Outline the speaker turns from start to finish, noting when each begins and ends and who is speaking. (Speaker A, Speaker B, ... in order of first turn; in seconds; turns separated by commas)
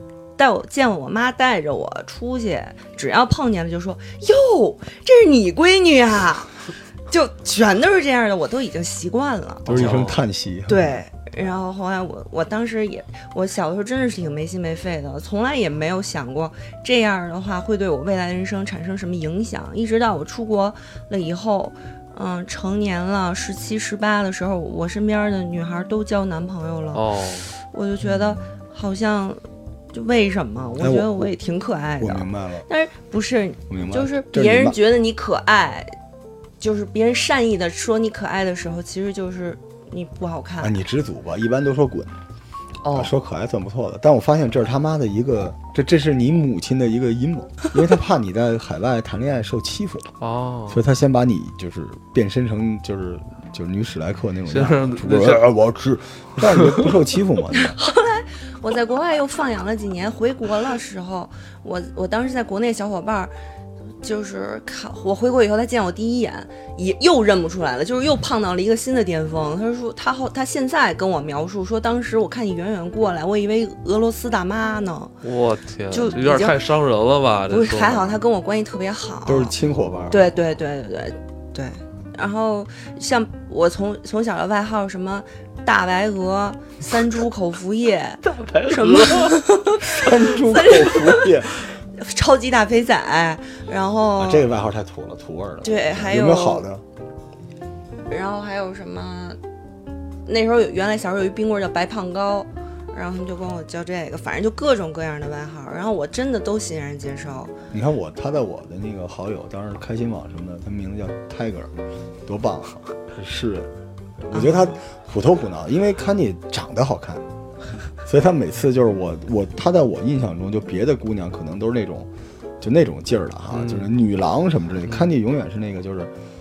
Speaker A: 0.4-6.5, Speaker A: 7.1-10.0, Speaker B: 9.7-10.2, Speaker C: 9.7-11.0, Speaker A: 10.7-27.0, Speaker B: 26.9-27.5, Speaker A: 27.6-29.4, Speaker C: 28.0-28.5, Speaker A: 29.9-36.0, Speaker C: 30.8-31.3, Speaker C: 32.0-32.7, Speaker C: 33.7-34.8, Speaker A: 36.6-40.8, Speaker C: 40.6-42.2, Speaker A: 42.8-43.1, Speaker C: 42.9-50.1, Speaker B: 50.2-50.8, Speaker C: 50.7-57.8, Speaker B: 54.5-55.5, Speaker B: 56.5-56.9, Speaker A: 57.5-63.3, Speaker A: 64.0-75.1, Speaker B: 75.2-78.2, Speaker A: 75.9-76.6, Speaker A: 77.5-79.5, Speaker C: 79.3-80.2, Speaker B: 79.8-80.2, Speaker A: 80.1-91.3, Speaker B: 88.2-89.4, Speaker C: 89.9-91.6, Speaker A: 92.0-94.5, Speaker C: 94.2-96.8, Speaker A: 95.6-96.7, Speaker A: 98.1-99.4, Speaker A: 100.3-107.5, Speaker C: 107.7-111.7, Speaker C: 112.3-117.3, Speaker A: 114.3-114.8, Speaker C: 118.0-126.1, Speaker B: 123.5-123.9, Speaker B: 124.8-125.1